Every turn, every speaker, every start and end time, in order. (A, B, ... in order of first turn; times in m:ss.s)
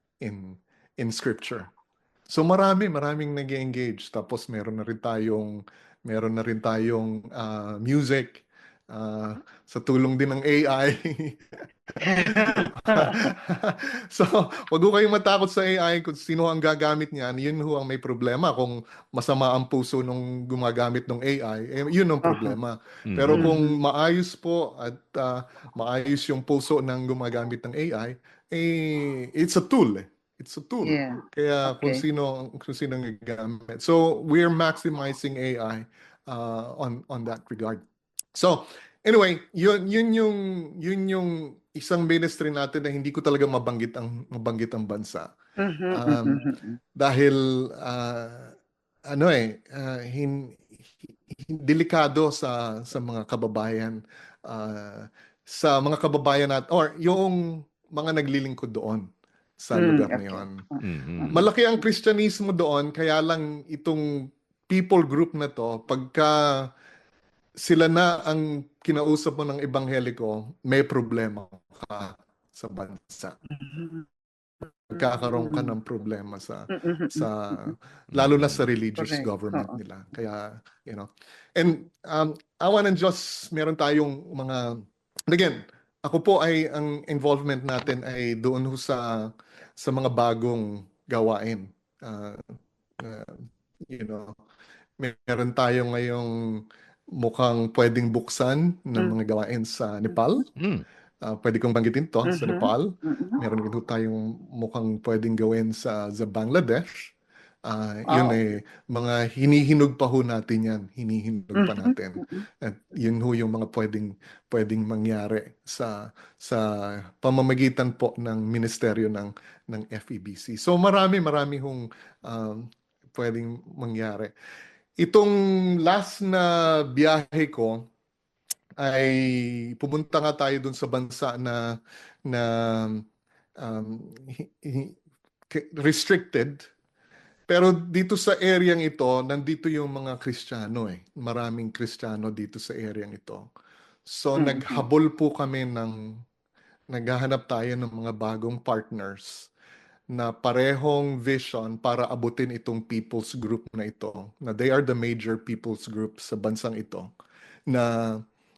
0:00.2-0:01.7 A
0:02.3-0:37.8 A
0:12.0-0:13.2 B
0:22.2-0:22.6 B
0:23.1-0:23.5 C
0:23.3-0:23.7 B
0:30.8-0:32.0 B
0:38.3-0:45.3 A
0:45.6-0:46.8 B
0:45.9-0:48.5 A
0:49.1-0:59.1 A
0:59.6-1:00.6 A
0:59.7-1:01.3 B
1:00.8-1:01.4 C
1:01.3-1:06.7 A
1:07.6-1:13.4 A
1:13.6-1:14.0 B
1:14.9-1:32.4 A
1:15.2-1:15.7 B
1:16.7-1:17.7 B
1:18.1-1:18.6 C
1:19.0-1:19.8 B
1:33.0-1:34.3 A
1:35.0-1:36.6 A
1:37.2-1:40.4 A
1:40.6-1:40.8 C
1:41.2-1:46.8 A
1:42.2-1:43.4 B
1:47.6-2:04.3 A
1:48.1-1:48.4 B
1:51.5-1:52.4 B
2:05.0-2:07.8 A
2:08.8-2:11.7 A
2:12.3-2:13.0 A
2:13.6-2:15.0 A
2:15.5-2:16.6 A
2:17.5-2:23.5 A
2:24.1-2:26.0 A
2:24.4-2:24.8 B
2:26.9-2:29.5 A
2:30.1-2:37.1 A
2:37.7-2:38.2 A